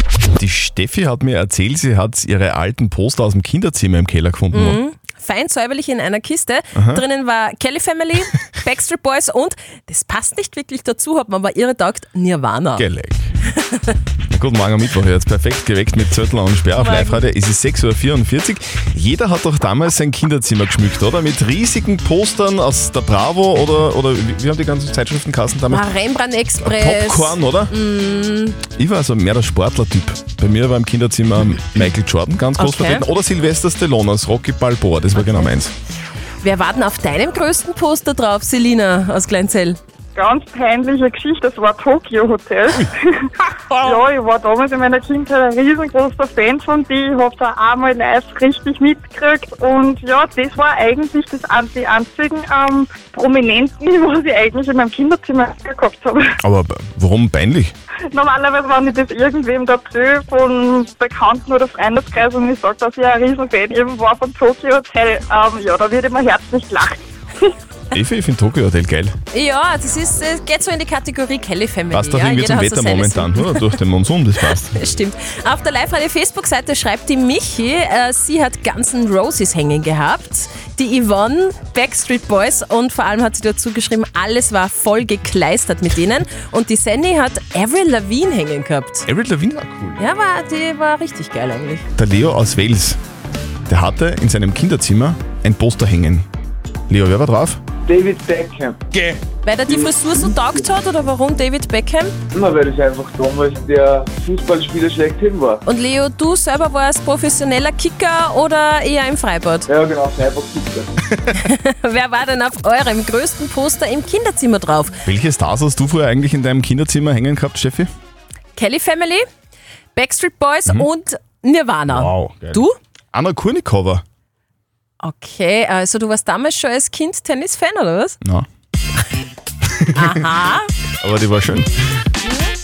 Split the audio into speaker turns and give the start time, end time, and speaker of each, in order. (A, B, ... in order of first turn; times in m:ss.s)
0:00.4-0:04.8 A
0:04.5-0:12.8 B
0:06.8-0:07.0 A
0:12.8-0:13.3 A
0:13.5-0:14.0 B
0:14.3-0:25.9 A
0:16.8-0:17.2 B
0:25.7-0:28.6 B
0:26.6-0:27.8 A
0:28.8-0:35.7 A
0:32.6-0:33.0 B
0:36.4-0:39.8 B
0:40.2-0:56.3 C
0:56.4-0:57.7 A
0:58.1-1:07.5 C
1:07.9-1:09.2 A
1:09.3-1:13.7 B
1:11.9-1:14.9 A
1:14.7-1:29.0 B
1:29.1-1:30.0 A
1:30.0-1:31.8 B
1:32.0-1:33.0 A
1:33.7-1:36.3 A
1:36.9-1:37.6 A
1:37.9-1:38.8 D
1:39.4-1:42.2 B
1:42.4-1:45.6 D
1:45.7-1:49.7 B
1:49.7-1:50.9 D
1:51.4-1:55.0 B
1:55.0-1:57.9 A
1:58.6-1:59.2 B
2:00.0-2:02.8 B
2:01.9-2:02.6 A
2:03.1-2:04.0 A
2:05.0-2:08.2 B
2:10.0-2:10.7 B
2:11.0-2:11.7 A